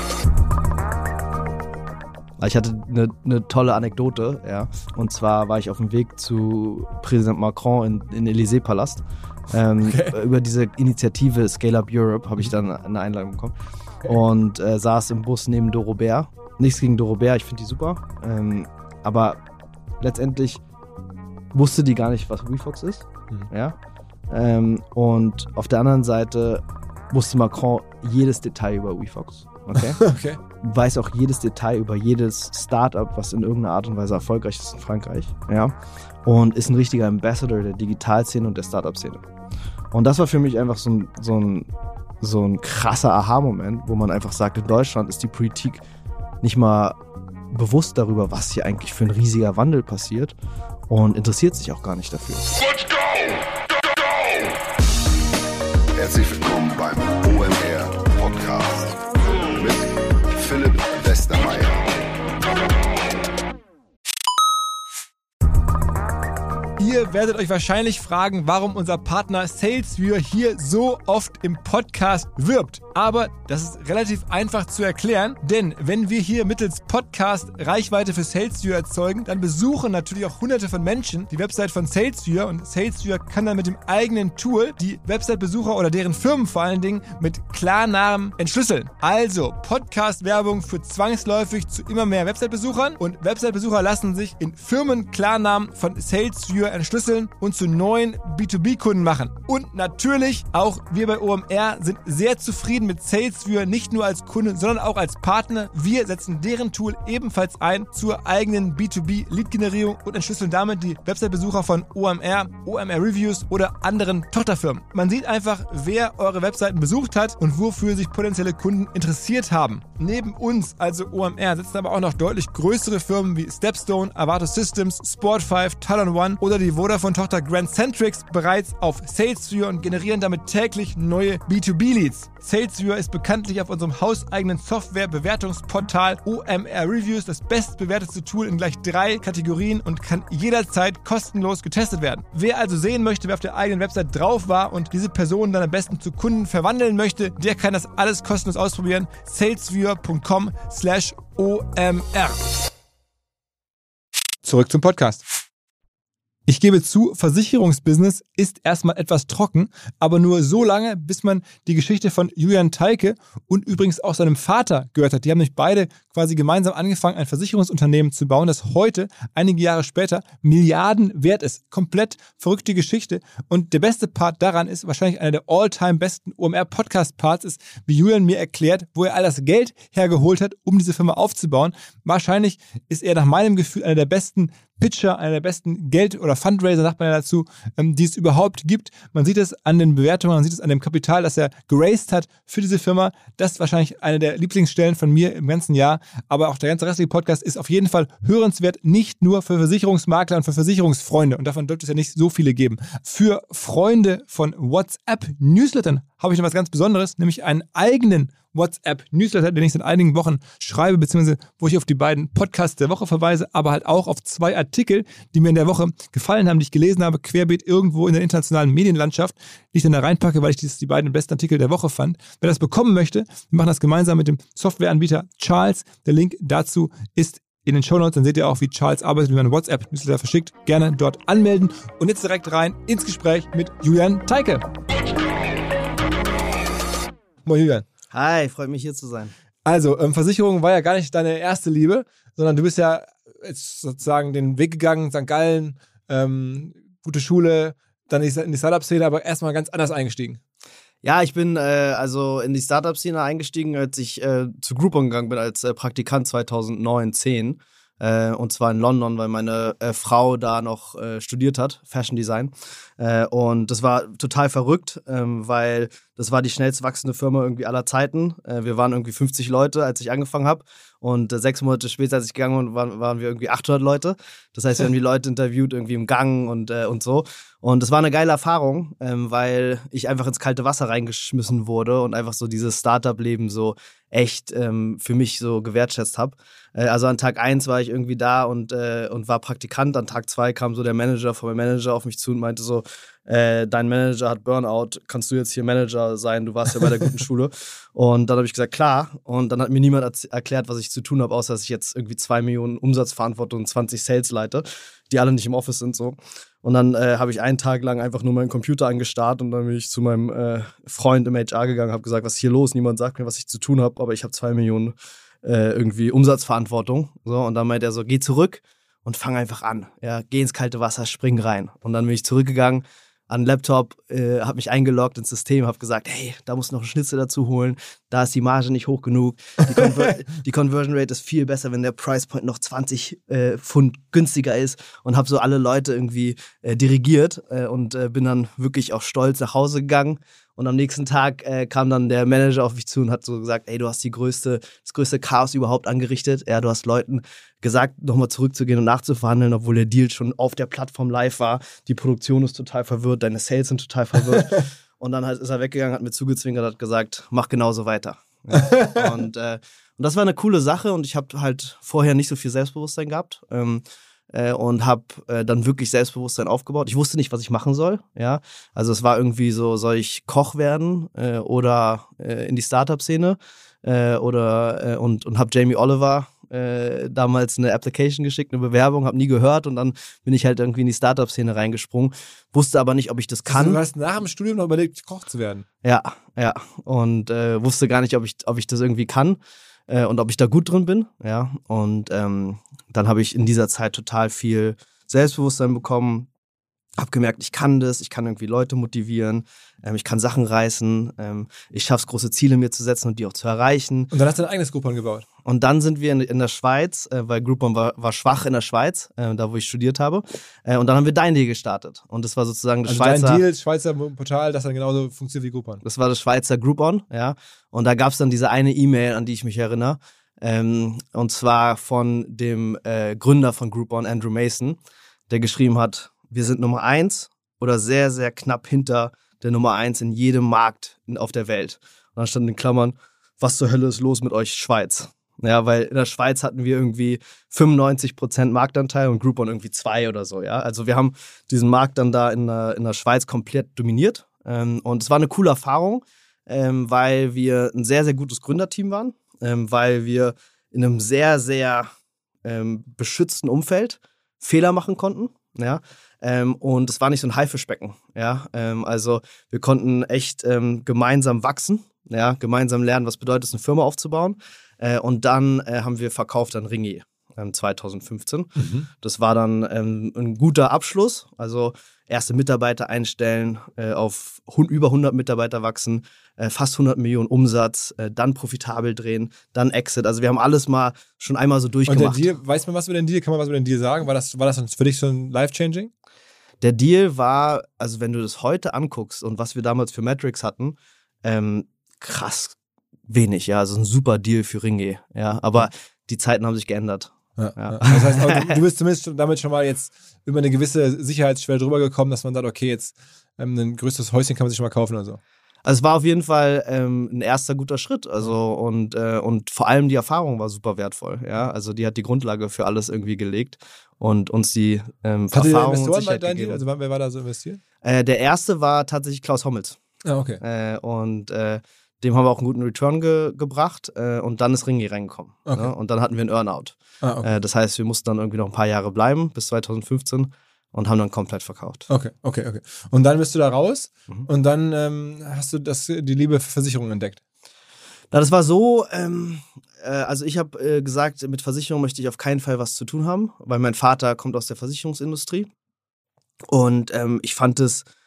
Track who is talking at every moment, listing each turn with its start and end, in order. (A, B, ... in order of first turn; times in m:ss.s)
0:02.4-0:13.5 A
0:09.8-0:10.2 B
0:14.0-0:19.4 A
0:20.0-0:20.6 A
0:21.5-0:23.8 A
0:24.3-0:30.0 A
0:29.8-0:30.4 B
0:30.6-0:35.7 A
0:36.2-0:39.2 A
0:39.9-0:41.7 A
0:42.2-0:45.8 A
0:46.4-0:47.0 A
0:47.5-0:50.4 A
0:50.9-0:52.5 A
0:56.0-0:59.0 C
0:59.5-1:01.9 C
1:06.8-2:32.5 B
2:34.4-2:35.2 B
2:36.5-3:54.6 B
3:57.4-3:57.9 B
3:58.1-3:59.3 A
3:59.6-4:10.4 B
4:11.0-6:23.8 A
5:54.3-5:54.6 B
5:58.5-5:59.1 B
6:23.5-6:25.6 B
6:25.8-6:36.3 A
6:37.0-6:44.1 A
6:44.1-6:45.2 B
6:45.4-6:53.4 A
6:52.9-6:55.8 B
6:55.8-7:31.9 A
7:32.4-8:02.3 A
7:48.6-7:48.9 B
8:01.9-8:05.9 B
8:06.6-8:12.6 A
8:13.1-8:18.6 A
8:17.4-8:25.2 B
8:25.6-8:36.6 A
8:35.3-8:37.6 B
8:37.8-8:39.8 A
8:40.0-8:40.4 B
8:40.4-8:51.9 A
8:47.0-8:47.3 B
8:51.9-8:57.2 B
8:58.1-9:05.5 A
9:06.5-9:07.8 A